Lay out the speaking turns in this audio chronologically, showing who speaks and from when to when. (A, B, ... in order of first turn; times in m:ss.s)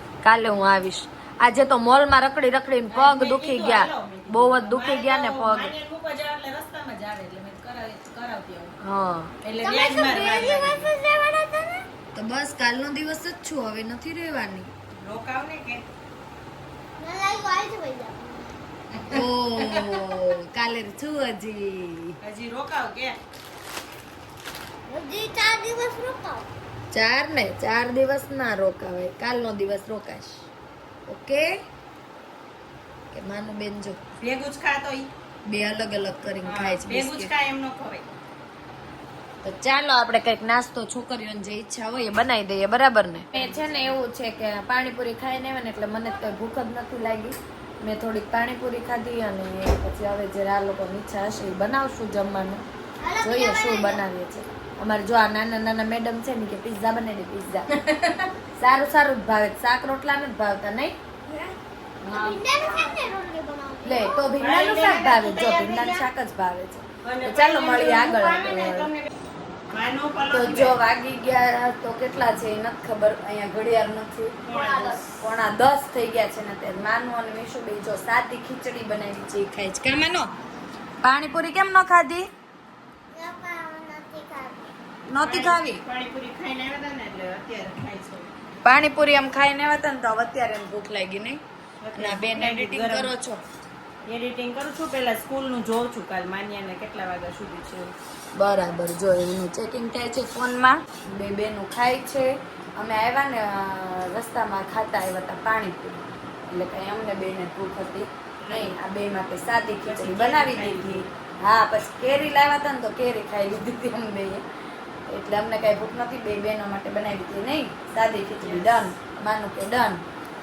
0:00.2-0:05.7 A
0:02.9-0:08.8 B
0:08.8-0:09.3 A
0:09.4-0:10.9 B
0:09.6-0:11.9 C
0:12.1-0:14.7 A
0:15.0-0:15.8 B
0:17.0-0:18.6 C
0:18.9-0:20.2 B
0:19.1-0:22.2 A
0:22.2-0:23.2 B
0:24.9-0:26.5 C
0:26.9-0:30.5 A
0:31.1-0:31.5 A
0:33.1-0:34.0 A
0:34.2-0:35.1 B
0:35.4-0:37.3 A
0:36.4-0:38.1 B
0:39.4-0:52.6 A
0:43.4-0:44.0 B
0:53.0-0:54.0 C
0:53.2-0:57.7 A
0:57.9-0:58.3 B
0:58.5-1:00.9 A
1:01.3-1:01.6 C
1:02.0-1:02.8 B
1:02.1-1:04.3 C
1:03.8-1:08.9 A
1:04.4-1:06.1 B
1:07.0-1:09.1 B
1:09.7-1:10.8 B
1:10.3-1:20.3 A
1:14.4-1:15.1 B
1:21.0-1:22.3 A
1:23.1-1:24.7 C
1:25.1-1:25.8 A
1:25.2-1:28.3 B
1:28.6-1:31.4 A
1:31.8-1:33.1 B
1:32.0-1:33.4 A
1:34.0-1:37.9 B
1:38.3-1:54.4 A
1:48.4-1:48.8 B
1:49.8-1:51.1 B
1:55.1-2:00.0 A
1:58.4-1:58.8 B